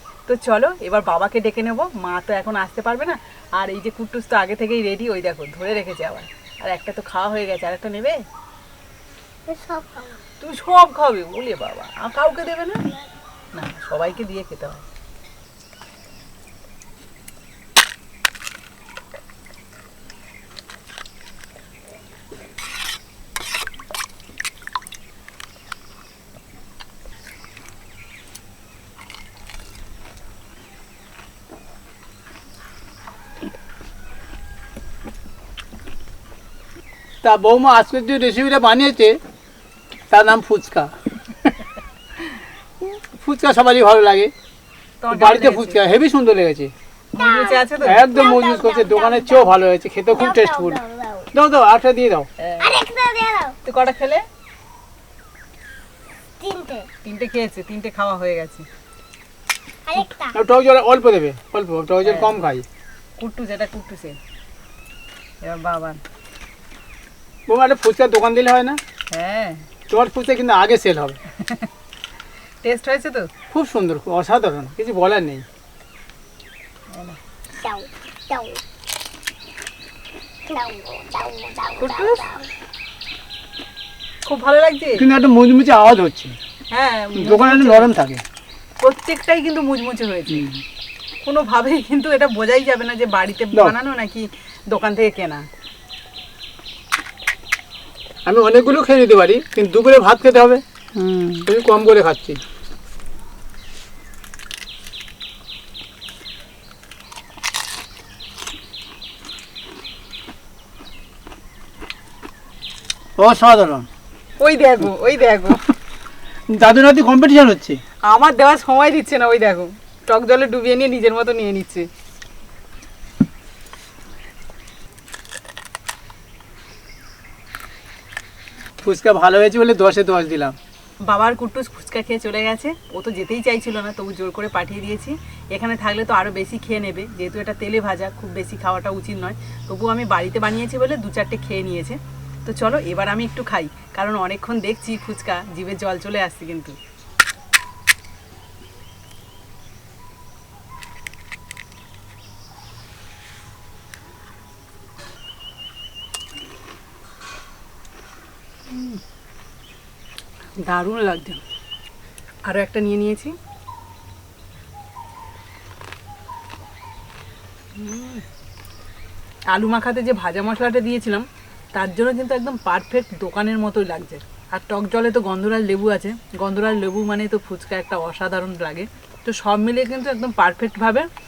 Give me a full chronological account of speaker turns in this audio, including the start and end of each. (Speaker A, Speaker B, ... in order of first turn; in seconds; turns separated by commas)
Speaker A: 0.3-8.2, Speaker B: 9.5-10.2, Speaker A: 10.4-12.8, Speaker A: 13.5-14.8, Speaker C: 37.2-39.2, Speaker C: 40.1-41.5, Speaker C: 43.2-44.3, Speaker A: 45.0-45.8, Speaker C: 45.1-46.7, Speaker A: 47.1-48.0, Speaker B: 47.1-49.5, Speaker C: 47.8-50.8, Speaker B: 50.1-51.3, Speaker C: 51.3-52.3, Speaker A: 52.4-52.7, Speaker B: 52.6-53.6, Speaker A: 53.6-54.2, Speaker B: 56.4-56.9, Speaker A: 57.0-58.7, Speaker B: 59.9-60.4, Speaker C: 60.3-62.6, Speaker A: 62.0-62.4, Speaker A: 63.2-64.2, Speaker A: 65.4-66.0, Speaker C: 67.5-68.8, Speaker A: 69.1-69.6, Speaker C: 69.9-71.2, Speaker A: 71.3-71.7, Speaker A: 72.6-73.3, Speaker C: 73.5-75.5, Speaker A: 76.9-77.2, Speaker B: 77.6-78.6, Speaker B: 80.5-82.5, Speaker A: 81.8-82.2, Speaker A: 84.2-85.1, Speaker C: 85.0-86.4, Speaker A: 86.7-87.9, Speaker C: 87.2-88.2, Speaker A: 88.8-90.5, Speaker A: 91.2-95.5, Speaker C: 98.2-100.6, Speaker A: 101.0-101.5, Speaker C: 101.5-102.4, Speaker C: 113.2-113.9, Speaker A: 114.4-115.6, Speaker C: 116.5-117.8, Speaker A: 118.1-121.9, Speaker C: 128.8-130.6, Speaker A: 131.1-146.8, Speaker A: 158.7-159.0, Speaker A: 160.6-161.4, Speaker A: 162.5-163.4, Speaker A: 167.8-168.2, Speaker A: 169.5-181.1